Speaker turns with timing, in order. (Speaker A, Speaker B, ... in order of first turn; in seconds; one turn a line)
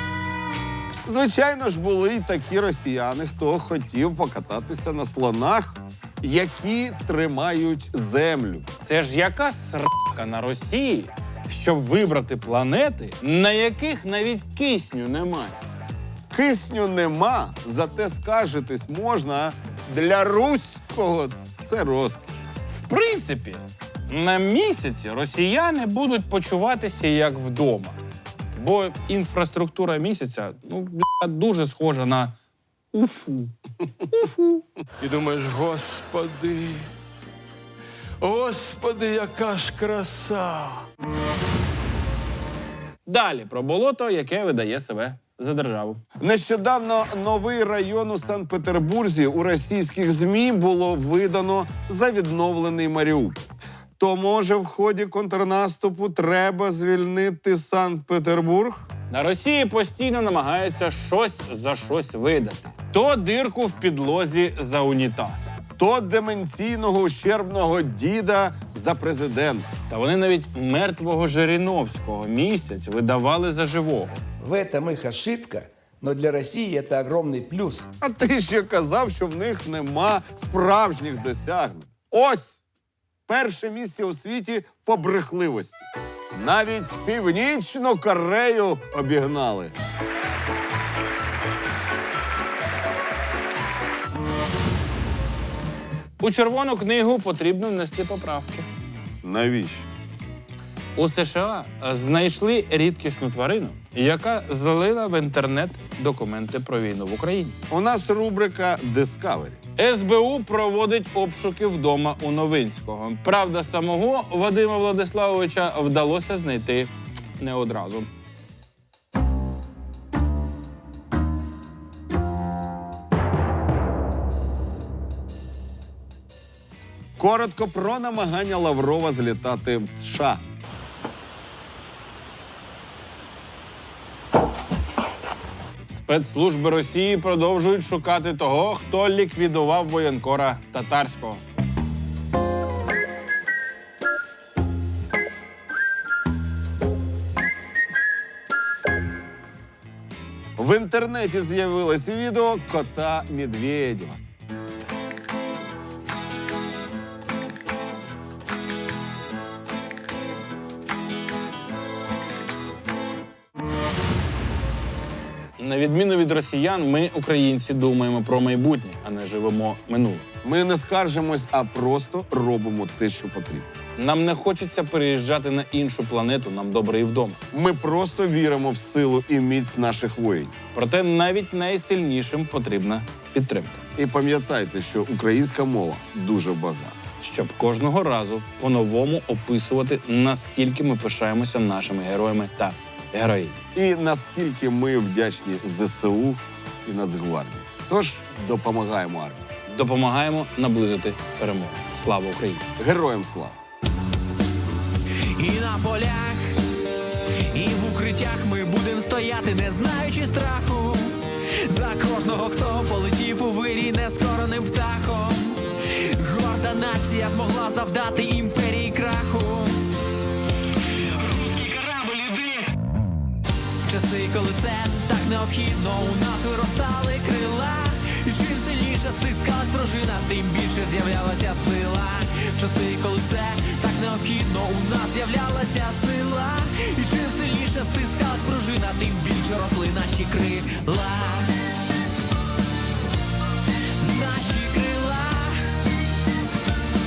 Speaker A: 1.1-8.7
Speaker B: 8.8-15.6
Speaker A: 16.3-22.3
Speaker B: 22.7-28.0
Speaker B: 28.5-32.3
Speaker B: 32.9-33.5
Speaker B: 34.1-34.6
Speaker C: 35.0-36.9
Speaker C: 38.2-40.8
Speaker B: 43.1-46.0
Speaker A: 46.2-53.4
Speaker A: 54.0-58.9
Speaker B: 59.1-65.5
Speaker A: 65.8-69.7
Speaker B: 69.9-74.1
Speaker D: 74.4-77.9
Speaker A: 78.0-82.6
Speaker A: 83.3-89.8
Speaker B: 96.2-98.7
Speaker A: 99.2-99.9
Speaker B: 101.0-107.6
Speaker A: 107.7-109.6
Speaker B: 109.8-118.1
Speaker A: 127.2-130.4
Speaker B: 135.9-141.4
Speaker A: 150.6-154.2
Speaker B: 165.6-170.3
Speaker A: 170.4-173.7
Speaker B: 174.0-177.4
Speaker A: 177.5-180.5
Speaker B: 180.7-183.9
Speaker A: 184.0-187.0
Speaker B: 187.2-193.6
Speaker A: 193.8-199.4
Speaker B: 199.7-202.7
Speaker A: 202.8-203.6
Speaker E: 205.3-206.6
Speaker E: 207.5-219.8
Speaker E: 223.9-241.5
Speaker E: 244.0-245.6